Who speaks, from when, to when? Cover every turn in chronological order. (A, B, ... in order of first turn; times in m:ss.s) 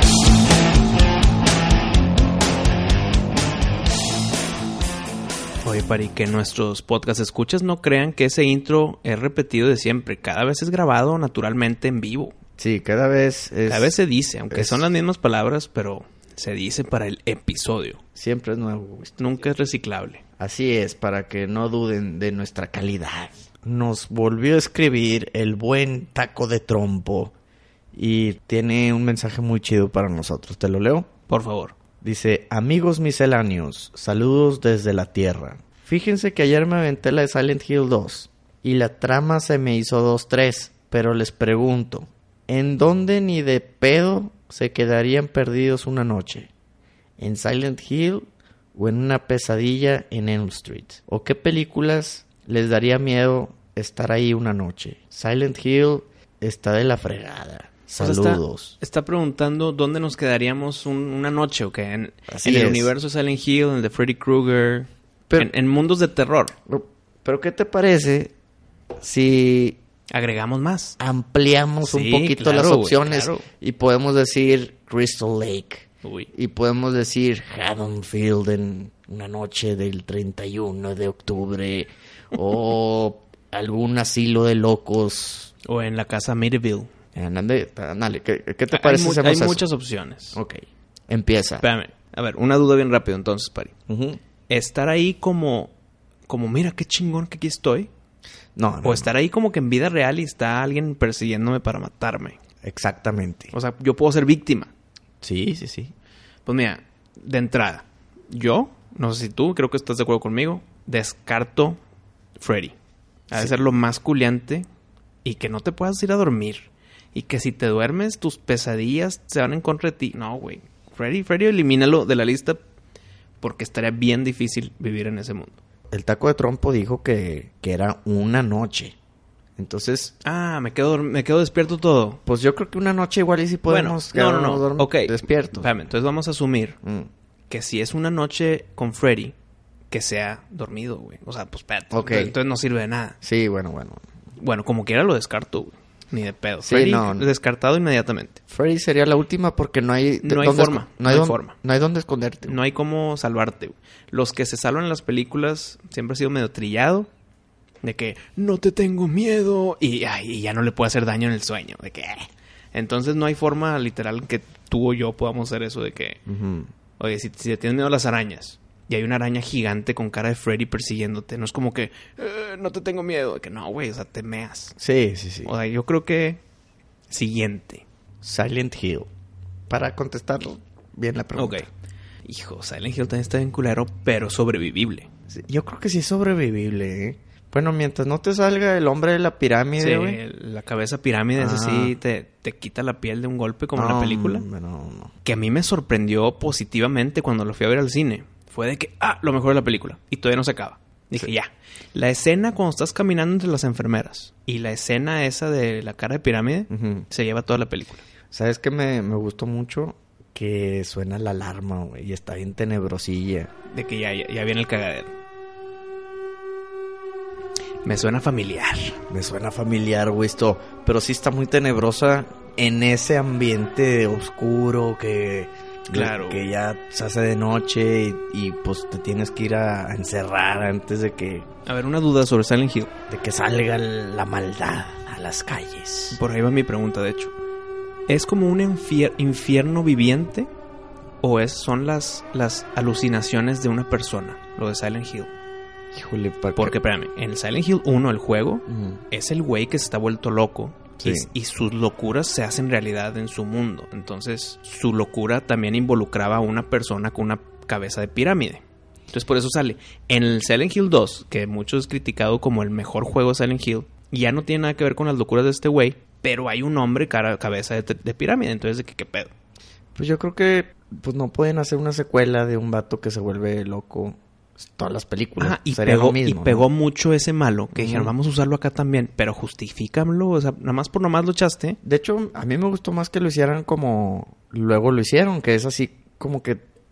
0:05.6-0:12.3 A
0:12.6-0:14.0 B
0:13.7-0:18.0 A
0:14.5-0:14.9 B
0:18.1-0:19.2 B
0:19.2-0:20.2 A
0:20.4-0:27.3 B
0:27.9-0:31.1 B
0:31.3-0:31.7 A
0:32.0-0:46.5 B
0:47.2-0:58.8 B
0:58.0-1:06.5 A
1:02.3-1:02.9 B
1:06.7-1:08.3 B
1:09.0-1:09.8 B
1:10.1-1:11.0 A
1:11.0-1:25.5 B
1:11.8-1:13.4 A
1:16.0-1:16.3 A
1:25.6-1:26.9 A
1:27.1-1:29.6 B
1:28.7-1:30.4 A
1:30.3-1:31.6 B
1:31.6-1:33.7 A
1:33.9-1:34.2 B
1:34.5-1:35.7 A
1:36.3-1:37.9 A
1:38.6-1:39.1 B
1:38.8-1:42.4 A
1:42.6-1:43.5 B
1:43.5-1:44.7 A
1:45.2-1:45.9 B
1:46.4-1:51.8 A
1:52.4-1:52.7 A
1:53.3-1:54.6 A
1:55.2-2:02.6 A
2:03.4-2:05.6 A
2:05.9-2:08.9 B
2:09.6-2:10.1 B
2:10.2-2:12.2 A
2:12.2-2:15.9 B
2:13.7-2:16.8 A
2:16.8-2:17.1 B
2:17.5-2:19.3 A
2:19.9-2:23.2 A
2:21.9-2:22.3 B
2:23.2-2:24.0 B
2:24.4-2:28.4 A
2:26.6-2:27.3 B
2:28.5-2:32.6 B
2:30.2-2:31.5 A
2:32.4-2:37.1 A
2:37.8-2:46.2 A
2:46.3-2:46.7 B
2:47.0-2:54.7 A
2:54.8-2:55.5 B
2:55.4-2:56.4 A
2:57.1-2:57.8 A
2:58.2-2:59.1 B
2:59.7-3:01.7 B
3:01.3-3:01.7 A
3:02.2-3:05.1 A
3:05.3-3:10.2 B
3:09.8-3:14.4 A
3:11.4-3:12.0 B
3:13.8-3:15.1 B
3:15.2-3:28.0 A
3:26.7-3:27.1 B
3:28.3-3:33.5 B
3:33.7-3:35.1 A
3:37.8-3:39.0 A
3:39.1-3:51.5 B
3:45.9-3:46.5 A
3:51.6-3:52.9 A
3:53.1-3:56.2 B
3:56.1-3:57.3 A
3:58.1-4:00.5 A
4:01.2-4:05.3 A
4:05.9-4:06.8 B
4:06.6-4:29.3 A
4:08.7-4:09.0 B
4:11.0-4:11.3 B
4:29.9-4:34.2 B
4:34.8-4:36.6 B
4:35.4-4:41.8 A
4:37.8-4:38.1 B
4:41.8-4:46.6 B